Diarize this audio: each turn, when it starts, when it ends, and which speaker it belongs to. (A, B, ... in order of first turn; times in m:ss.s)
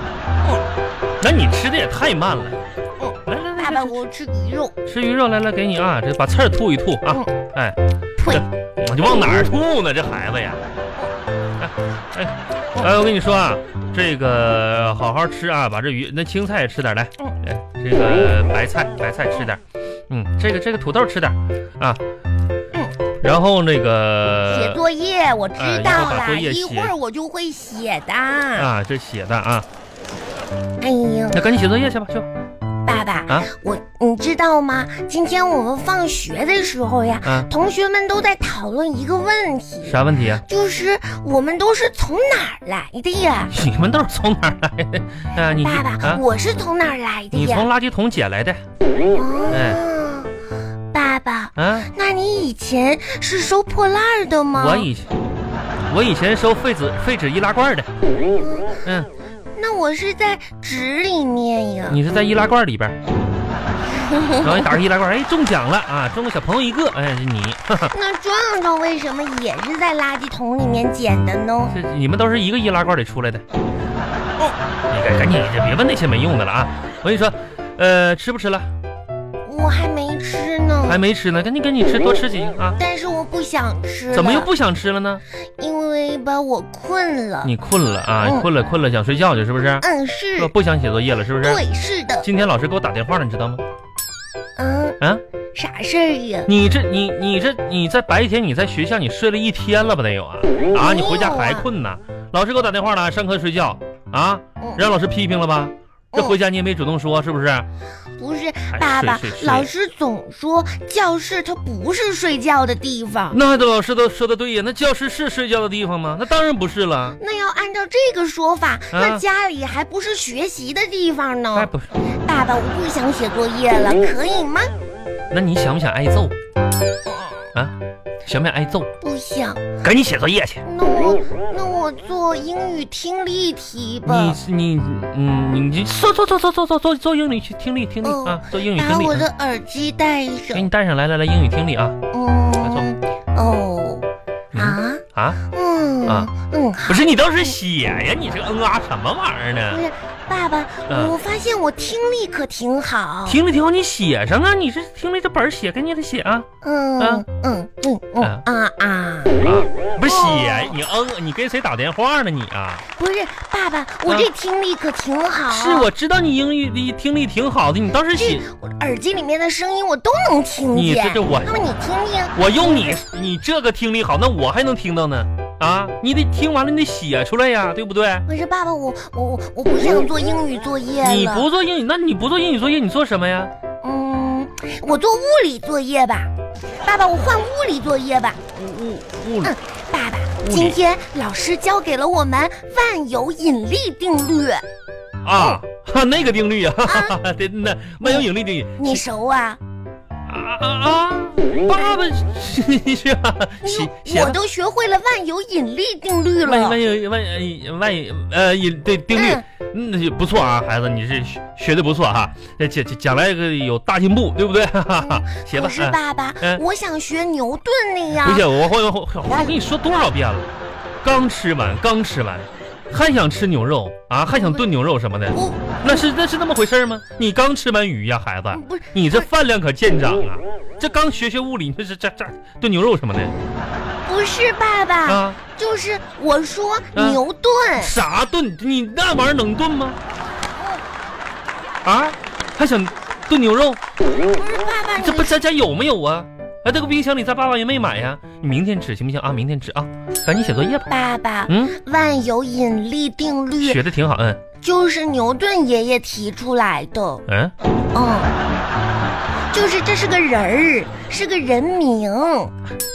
0:01.2-0:02.6 A
0:03.0-0:04.8 B
0:03.3-0:04.0 A
0:04.9-0:10.6 A
0:08.2-0:08.4 B
0:11.6-0:22.0 A
0:23.2-0:24.8 A
0:24.5-0:28.7 B
0:25.6-0:26.9 A
0:28.6-0:29.7 A
0:30.8-0:31.4 B
0:31.3-0:32.3 A
0:32.9-0:43.5 B
0:37.2-0:37.5 A
0:39.8-0:40.4 A
0:43.5-0:46.2 A
0:45.6-0:47.7 B
0:47.3-0:48.6 A
0:49.1-0:50.3 B
0:49.5-0:49.8 A
0:50.9-0:54.9 B
0:51.6-0:51.9 A
0:54.6-0:55.1 A
0:55.9-0:57.9 A
0:58.3-0:58.8 B
0:58.8-0:59.1 A
0:59.6-1:02.0 B
1:01.9-1:03.0 A
1:03.9-1:04.7 B
1:04.4-1:07.9 A
1:07.9-1:11.8 B
1:11.7-1:13.4 A
1:14.9-1:18.7 A
1:19.4-1:21.0 B
1:20.9-1:22.8 A
1:22.8-1:24.5 B
1:24.1-1:25.2 A
1:25.6-1:27.5 B
1:27.4-1:29.8 A
1:28.2-1:28.5 B
1:29.8-1:30.5 B
1:30.4-1:31.6 A
1:31.4-1:32.2 B
1:32.2-1:33.6 A
1:34.6-1:35.0 B
1:35.5-1:36.5 B
1:36.5-1:47.7 A
1:40.7-1:41.6 B
1:44.6-1:44.8 B
1:48.2-1:53.4 B
1:48.7-1:49.7 A
1:53.3-1:57.2 A
1:57.2-2:01.7 B
1:58.9-1:59.2 A
2:01.5-2:01.9 A
2:02.2-2:04.7 B
2:05.3-2:06.3 A
2:08.2-2:08.9 A
2:09.0-2:09.7 B
2:09.8-2:10.6 A
2:10.6-2:14.4 B
2:14.0-2:19.3 A
2:18.0-2:20.6 B
2:20.5-2:22.0 A
2:22.1-2:27.1 B
2:22.6-2:22.9 A
2:24.5-2:25.4 A
2:26.0-2:26.3 A
2:26.8-2:29.8 A
2:29.7-2:33.4 B
2:30.9-2:31.2 A
2:33.3-2:36.5 A
2:36.6-2:39.4 B
2:37.0-2:37.2 A
2:39.4-2:42.8 A
2:40.0-2:40.7 B
2:43.0-2:45.9 B
2:45.5-2:48.4 A
2:48.1-2:53.0 B
2:50.7-2:51.5 A
2:52.3-2:58.2 A
2:58.2-3:01.5 B
3:01.0-3:03.5 A
3:03.8-3:08.4 B
3:08.5-3:09.5 A
3:09.4-3:14.6 B
3:10.4-3:10.8 A
3:15.2-3:19.0 A
3:16.8-3:17.2 B
3:18.0-3:18.3 B
3:18.8-3:19.6 B
3:20.3-3:24.4 A
3:23.6-3:26.8 B
3:26.4-3:36.6 A
3:29.1-3:29.4 B
3:35.0-3:38.5 B
3:38.2-3:40.5 A
3:41.0-3:53.3 A
3:44.3-3:44.6 B
3:45.3-3:46.0 B
3:48.5-3:49.3 B
3:54.0-3:58.0 B
3:55.0-3:55.4 A
3:56.9-3:57.2 A
3:57.8-4:00.0 A
4:00.6-4:00.8 B
4:01.8-4:03.8 A
4:04.3-4:05.4 B
4:05.0-4:10.9 A
4:10.8-4:13.8 B
4:11.5-4:11.7 A
4:13.6-4:14.4 A
4:14.6-4:17.2 B
4:17.3-4:17.5 A
4:17.9-4:18.4 B
4:19.5-4:22.5 B